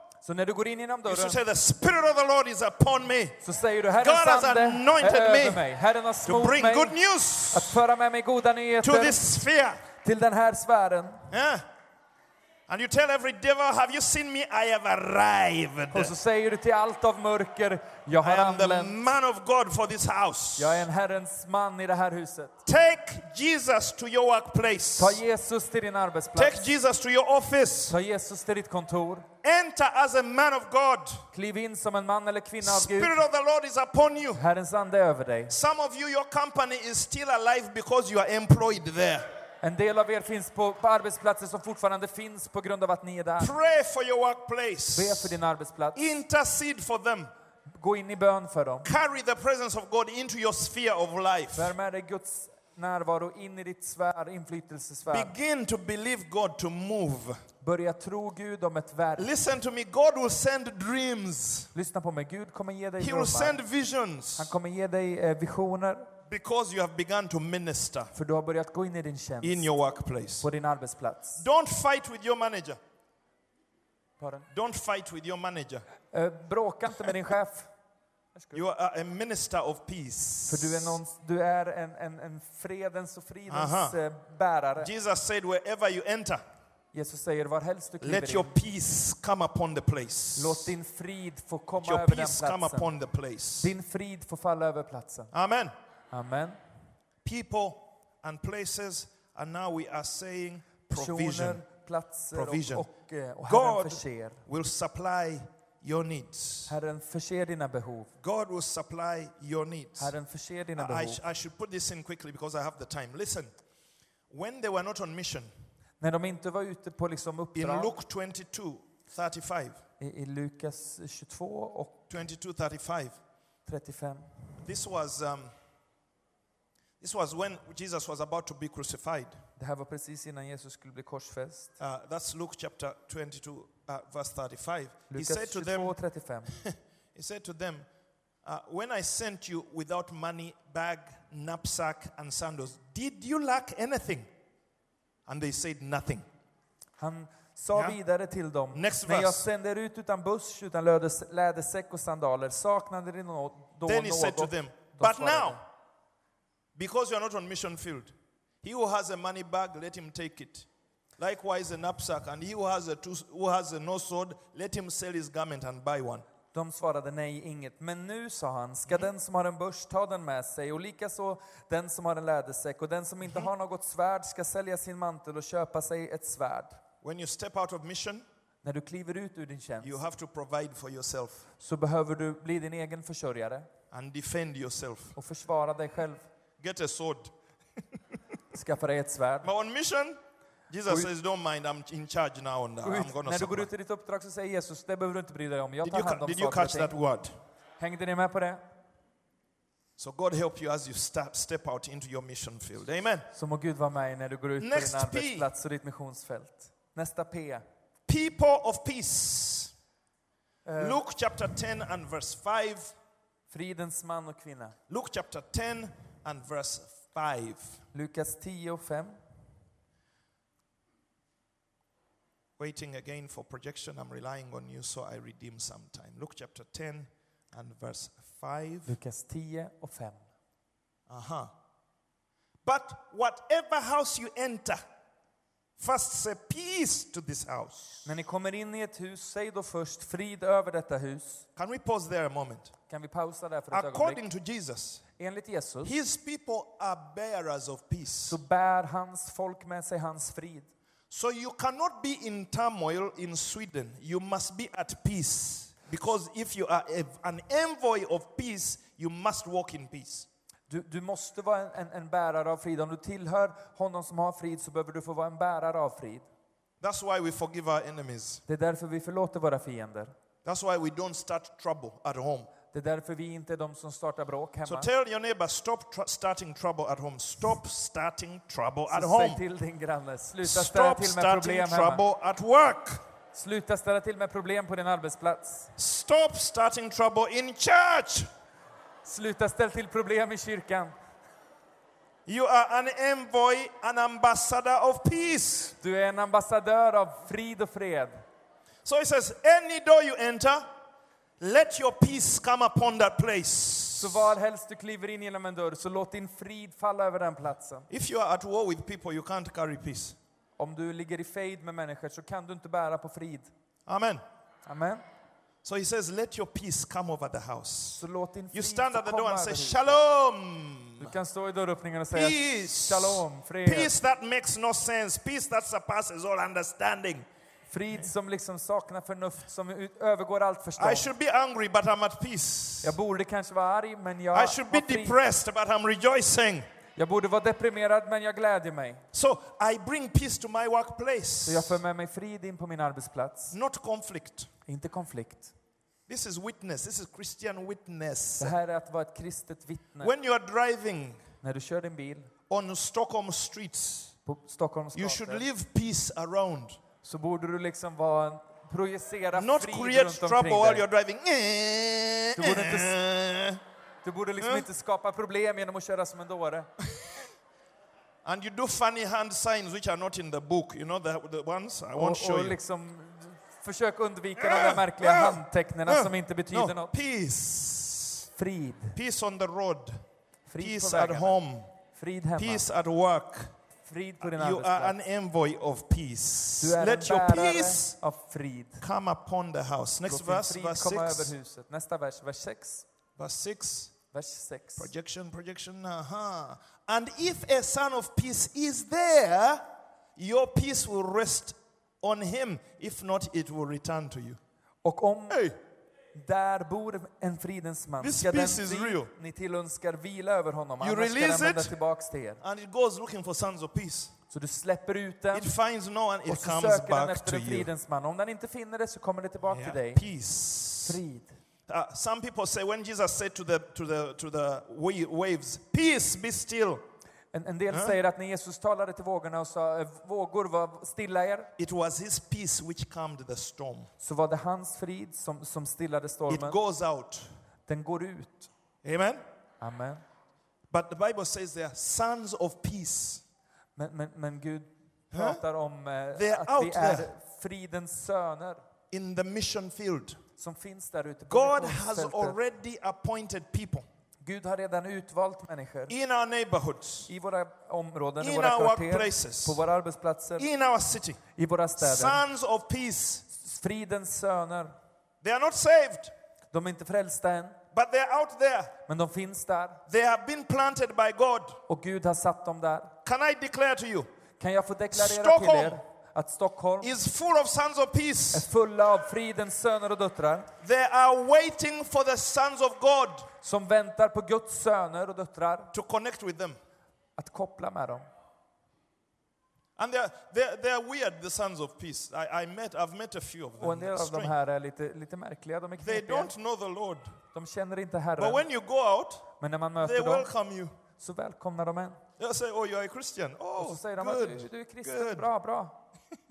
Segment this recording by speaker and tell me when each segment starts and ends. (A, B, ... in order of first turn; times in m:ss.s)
0:00.2-0:01.4 A
0:01.1-0:03.4 B
0:03.4-0:07.0 A
0:04.0-0:05.6 B
0:06.2-0:07.8 B
0:07.5-0:09.2 A
0:08.8-0:09.8 B
0:10.0-0:11.2 A
0:11.3-0:11.6 B
0:12.7-0:16.1 B
0:15.9-0:19.0 A
0:18.2-0:20.9 B
0:20.6-0:22.6 A
0:22.6-0:25.2 B
0:25.0-0:26.7 A
0:26.4-0:28.0 B
0:27.9-0:29.3 A
0:29.4-0:31.2 B
0:31.3-0:33.2 A
0:32.6-0:34.4 B
0:34.4-0:35.5 A
0:35.5-0:39.2 B
0:39.6-0:43.5 A
0:43.4-0:45.4 B
0:44.9-0:46.0 A
0:46.0-0:47.3 B
0:47.7-0:48.9 A
0:48.8-0:51.7 B
0:51.6-0:55.3 A
0:55.1-0:57.4 B
0:57.6-0:59.3 A
0:59.2-1:01.7 B
1:01.7-1:03.6 A
1:03.0-1:04.5 B
1:04.4-1:06.1 A
1:06.3-1:08.1 B
1:08.1-1:09.7 A
1:09.4-1:10.5 B
1:10.4-1:11.4 A
1:11.4-1:12.8 B
1:14.2-1:14.5 A
1:14.5-1:15.8 B
1:16.1-1:17.7 A
1:18.5-1:21.0 B
1:20.5-1:24.9 A
1:23.5-1:24.0 B
1:24.8-1:26.4 B
1:26.9-1:28.5 A
1:28.0-1:30.7 B
1:30.4-1:32.9 A
1:31.8-1:33.7 B
1:33.6-1:35.3 A
1:35.3-1:35.7 B
1:36.1-1:36.6 A
1:37.2-1:41.6 B
1:40.9-1:44.4 A
1:42.3-1:42.9 B
1:43.5-1:46.7 B
1:46.7-1:48.1 A
1:48.2-1:50.1 B
1:50.0-1:51.2 A
1:50.8-1:53.5 B
1:54.3-1:55.5 B
1:56.0-1:57.9 A
1:57.6-1:59.8 B
2:00.0-2:02.1 A
2:02.1-2:03.2 B
2:03.7-2:04.3 A
2:04.6-2:05.5 B
2:07.0-2:09.4 B
2:09.6-2:11.7 A
2:11.8-2:16.0 B
2:15.1-2:16.6 A
2:16.5-2:17.9 B
2:18.4-2:24.3 B
2:25.3-2:26.2 B
2:27.0-2:35.6 A
2:28.7-2:29.5 B
2:33.9-2:35.6 B
2:36.8-2:40.7 B
2:41.2-2:46.2 B
2:46.5-2:56.8 A
2:57.0-2:58.2 B
2:58.6-2:59.9 A
2:59.8-3:01.5 B
3:01.6-3:03.7 A
3:03.9-3:05.2 B
3:05.2-3:06.3 A
3:06.6-3:07.3 B
3:08.5-3:09.5 A
3:09.4-3:10.2 B
3:10.7-3:13.7 B
3:12.8-3:17.0 A
3:15.8-3:17.3 B
3:17.8-3:18.6 A
3:20.0-3:23.3 B
3:23.3-3:27.6 A
3:24.6-3:25.5 B
3:28.1-3:29.7 B
3:30.7-3:31.0 A
3:30.8-3:32.9 B
3:33.5-3:34.8 A
3:34.9-3:37.8 B
3:37.9-3:39.2 A
3:42.6-3:48.9 B
3:48.9-3:50.2 A
3:51.1-3:51.5 B
3:52.6-3:54.8 B
3:55.8-3:58.1 B
3:58.0-4:01.4 A
4:01.6-4:02.7 B
4:02.9-4:04.2 A
4:03.7-4:05.0 B
4:05.2-4:06.0 A
4:05.8-4:08.4 B
4:08.2-4:10.7 A
4:11.1-4:20.3 B
4:20.7-4:26.3 A
4:26.8-4:28.4 B
4:28.5-4:30.1 A
4:30.4-4:32.5 B
4:32.7-4:34.9 A
4:34.7-4:39.4 B
4:38.9-4:42.0 A
4:40.4-4:43.0 B
4:43.3-4:45.7 A
4:45.8-4:48.3 B
4:49.0-4:50.9 A
4:52.3-4:55.8 B
4:55.8-4:58.2 A
4:58.8-5:00.7 B
5:01.4-5:04.3 B
5:04.0-5:07.9 A
5:07.9-5:10.2 B
5:10.6-5:13.5 A
5:13.9-5:14.2 B
5:14.7-5:15.0 A
5:15.6-5:18.0 B
5:18.0-5:20.0 A
5:18.5-5:21.1 B
5:21.0-5:23.9 A
5:22.1-5:27.3 B
5:27.7-5:31.1 A
5:30.8-5:33.0 B
5:32.8-5:35.2 A
5:34.3-5:36.6 B
5:37.0-5:39.0 A
5:39.1-5:41.8 B
5:41.4-5:43.6 A
5:43.5-5:44.5 B
5:44.7-5:45.5 A
5:46.1-5:48.5 B
5:48.4-5:50.1 A
5:50.0-5:51.2 B
5:51.4-5:52.3 A
5:52.5-5:54.2 B
5:54.3-5:55.4 A
5:54.9-5:56.8 B
5:57.0-6:00.8 A
5:59.3-6:03.6 B
6:02.4-6:03.0 A
6:04.0-6:06.7 A
6:04.4-6:04.7 B
6:08.2-6:12.6 B
6:11.9-6:16.9 A
6:14.4-6:18.3 B
6:18.4-6:19.0 A
6:19.0-6:20.0 B
6:20.5-6:21.4 A
6:20.6-6:21.7 B
6:21.9-6:22.6 A
6:22.4-6:23.5 B
6:23.9-6:25.0 A
6:24.2-6:28.0 B
6:26.6-6:28.8 A
6:28.8-6:31.3 B
6:30.1-6:32.9 A
6:33.2-6:33.9 B
6:34.1-6:34.9 A
6:34.8-6:39.6 B
6:40.2-6:44.4 B
6:44.8-6:45.4 A
6:45.3-6:45.6 B
6:46.1-6:52.4 A
6:48.0-6:49.1 B
6:50.8-6:51.8 B
6:52.4-6:54.1 B
6:54.3-6:55.5 A
6:55.3-6:57.7 B
6:56.3-7:00.0 A
6:59.5-7:01.0 B
7:00.8-7:01.3 A
7:01.7-7:06.8 B
7:07.3-7:11.5 A
7:07.7-7:08.0 B
7:11.6-7:13.9 B
7:14.0-7:16.6 A
7:16.3-7:17.3 B
7:17.7-7:18.5 A
7:18.8-7:19.2 B
7:19.6-7:20.0 A
7:20.7-7:23.2 B
7:23.8-7:28.6 A
7:25.1-7:25.4 B
7:26.2-7:27.1 B
7:28.9-7:30.2 B
7:30.4-7:32.4 A
7:31.3-7:33.9 B
7:34.2-7:35.9 A
7:35.9-7:37.1 B
7:37.1-7:40.5 A
7:38.2-7:39.6 B
7:40.4-7:41.2 B
7:41.4-7:42.2 A
7:41.8-7:43.2 B
7:43.4-7:44.7 A
7:45.2-7:46.1 B
7:46.5-7:47.6 A
7:47.7-7:48.8 B
7:48.9-7:49.8 A
7:49.9-7:51.6 B
7:51.7-7:52.9 A
7:53.0-7:54.1 B
7:54.4-7:56.9 A
7:54.9-7:55.8 B
7:56.8-7:58.5 B
7:58.3-8:00.5 A
8:00.6-8:03.3 B
8:03.4-8:05.7 A
8:05.7-8:06.6 B
8:07.2-8:08.0 A
8:09.8-8:14.3 B
8:13.6-8:16.3 A
8:15.8-8:17.2 B
8:17.3-8:18.4 A
8:18.2-8:19.3 B
8:19.4-8:20.3 A
8:19.8-8:20.7 B
8:21.0-8:22.0 A
8:22.2-8:25.3 B
8:23.6-8:25.8 A